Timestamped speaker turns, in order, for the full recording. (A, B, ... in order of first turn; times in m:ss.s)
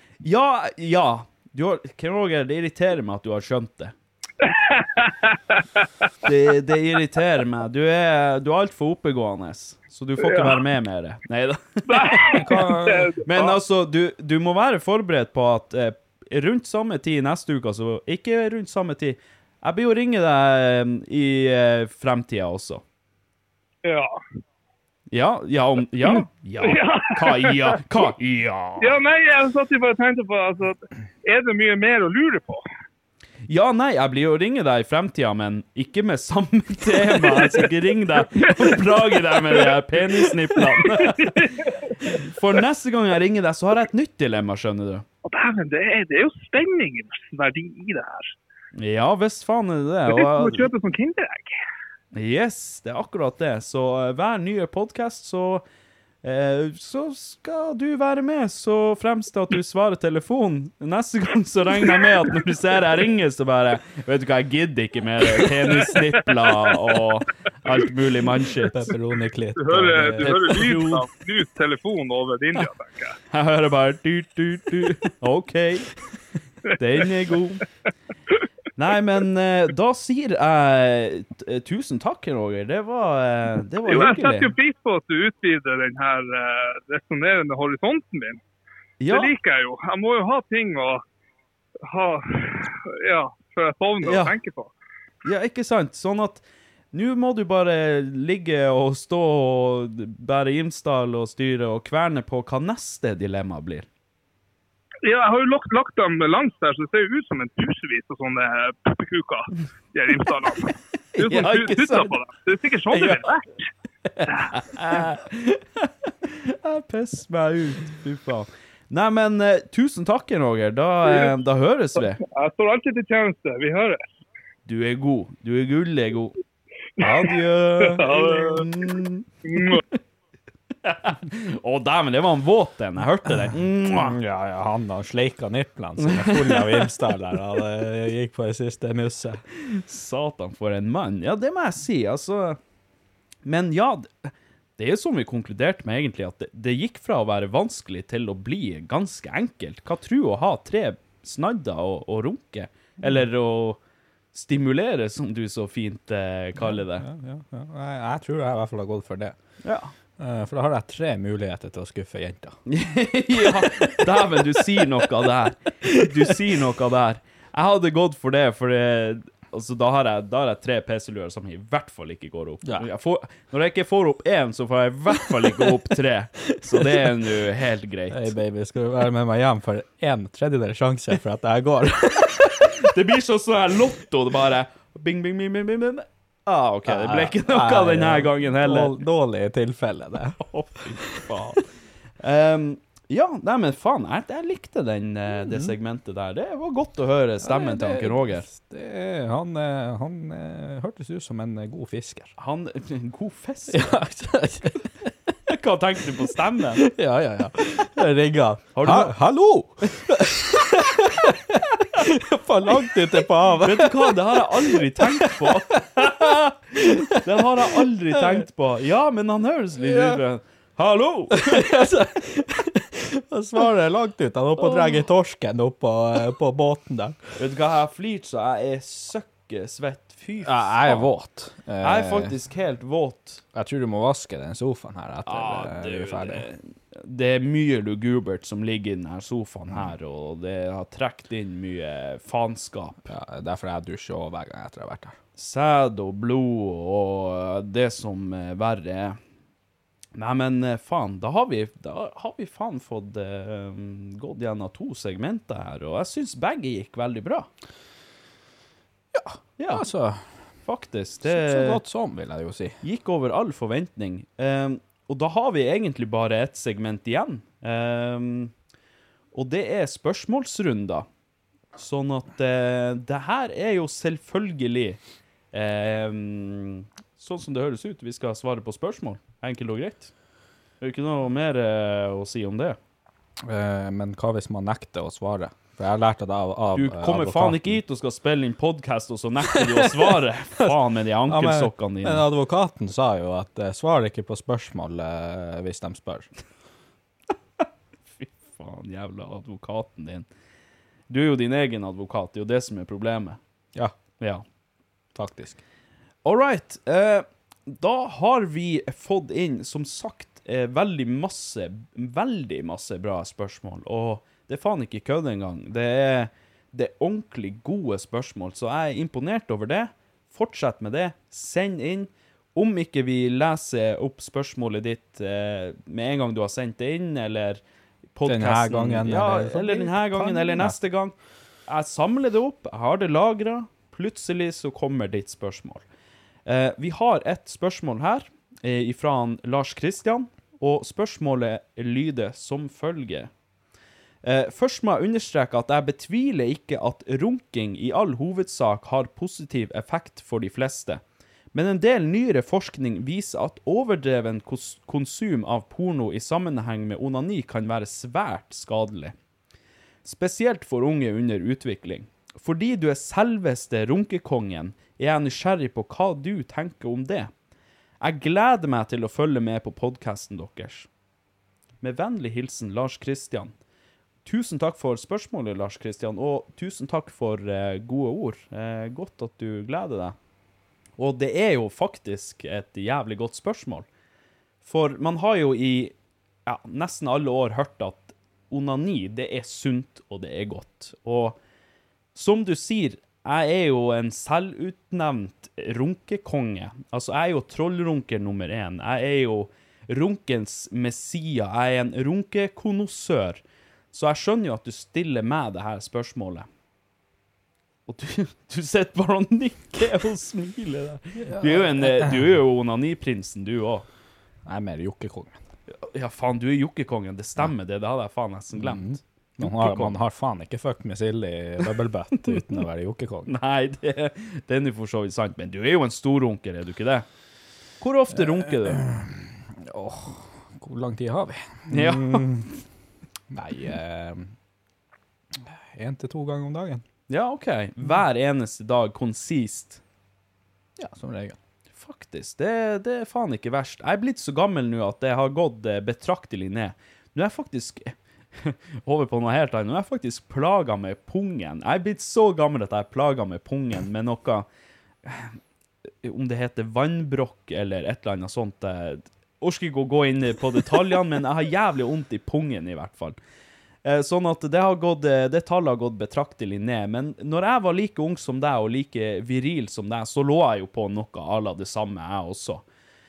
0:00.2-0:03.9 A
0:04.4-0:05.8 B
0:06.2-0:12.7 A
0:10.2-0:10.6 B
0:11.9-0:13.6 B
0:12.4-0:13.1 C
0:13.2-0:22.8 A
0:23.8-0:24.2 B
0:25.1-0:29.0 A
0:26.0-0:27.8 B
0:28.8-0:32.6 B
0:33.5-0:41.4 A
0:37.2-0:37.5 B
0:38.4-0:38.8 B
0:40.5-0:41.9 B
0:42.2-0:45.0 A
0:45.2-0:48.3 B
0:48.7-0:50.6 A
0:50.1-0:51.6 B
0:52.1-0:55.6 A
0:56.2-1:08.9 A
1:08.7-1:10.9 C
1:09.6-1:13.2 B
1:10.2-1:11.0 A
1:13.3-1:15.9 A
1:16.7-1:17.6 A
1:18.8-1:24.5 A
1:23.8-1:28.4 B
1:29.0-1:29.3 A
1:29.1-1:31.0 B
1:31.9-1:34.7 B
1:34.0-1:34.4 A
1:35.2-1:43.9 A
1:45.0-1:53.6 B
1:51.2-1:52.2 A
1:52.9-1:53.2 A
1:54.1-2:02.2 A
2:02.2-2:04.0 B
2:04.6-2:06.4 A
2:07.0-2:10.0 A
2:07.8-2:08.7 B
2:09.5-2:09.8 B
2:10.8-2:14.2 A
2:13.3-2:19.4 C
2:16.0-2:16.9 A
2:19.6-2:22.6 A
2:23.4-2:33.8 A
2:34.3-2:37.0 A
2:36.6-2:39.4 C
2:39.6-2:39.9 A
2:40.2-2:42.6 C
2:42.7-2:58.4 A
2:43.4-2:44.4 C
2:52.6-2:52.9 C
2:55.2-2:55.7 C
2:56.6-2:57.1 C
2:58.1-3:02.5 C
3:02.8-3:09.0 A
3:06.8-3:10.4 C
3:10.4-3:11.6 A
3:11.0-3:11.3 C
3:12.2-3:18.5 A
3:15.4-3:15.7 C
3:17.4-3:22.3 C
3:22.4-3:23.9 A
3:23.7-3:25.1 C
3:25.5-3:26.8 A
3:26.8-3:37.4 C
3:28.7-3:29.2 A
3:33.6-3:36.3 A
3:37.2-3:41.7 A
3:38.1-3:38.4 C
3:39.8-3:40.2 C
3:41.3-3:47.2 C
3:44.6-3:45.0 A
3:47.4-3:51.1 A
3:50.4-3:52.3 C
3:51.8-3:53.4 A
3:53.5-3:56.4 C
3:55.3-4:03.1 A
3:59.7-3:59.9 C
4:03.1-4:05.2 C
4:05.4-4:09.2 A
4:10.1-4:17.5 A
4:19.1-4:20.3 C
4:19.6-4:19.9 A
4:20.6-4:21.8 A
4:21.2-4:22.8 C
4:22.8-4:28.5 A
4:29.3-4:31.0 A
4:31.8-4:35.0 A
4:35.5-4:40.1 A
4:40.8-4:42.8 A
4:43.4-4:47.8 C
4:46.7-4:52.2 A
4:49.5-4:50.7 C
4:51.3-4:56.3 C
4:58.2-5:00.2 A
5:01.1-5:03.4 A
5:05.1-5:05.6 C
5:06.2-5:27.6 A
5:28.1-5:31.1 A
5:28.2-5:30.8 C
5:31.7-5:35.8 A
5:36.4-5:43.3 A
5:44.2-5:51.0 A
5:51.5-5:59.1 A
6:00.0-6:07.3 A
6:08.0-6:10.9 A
6:11.8-6:13.5 A
6:14.2-6:20.2 A
6:21.0-6:23.8 A
6:24.6-6:25.9 A
6:26.4-6:31.4 A
6:32.1-6:43.4 A
6:43.9-6:46.5 A
6:47.9-6:53.9 A
6:51.2-6:52.3 C
6:54.4-6:55.4 C
6:55.8-7:00.0 A
6:58.5-7:03.3 C
7:02.3-7:02.6 A
7:03.2-7:07.0 A
7:07.8-7:08.8 A
7:08.1-7:12.5 C
7:11.7-7:12.3 A
7:13.3-7:14.3 C
7:15.5-7:16.8 C
7:17.1-7:19.8 A
7:20.8-7:21.4 C
7:21.7-7:34.5 A
7:35.0-7:35.4 A
7:36.0-7:43.2 A
7:43.8-7:52.6 A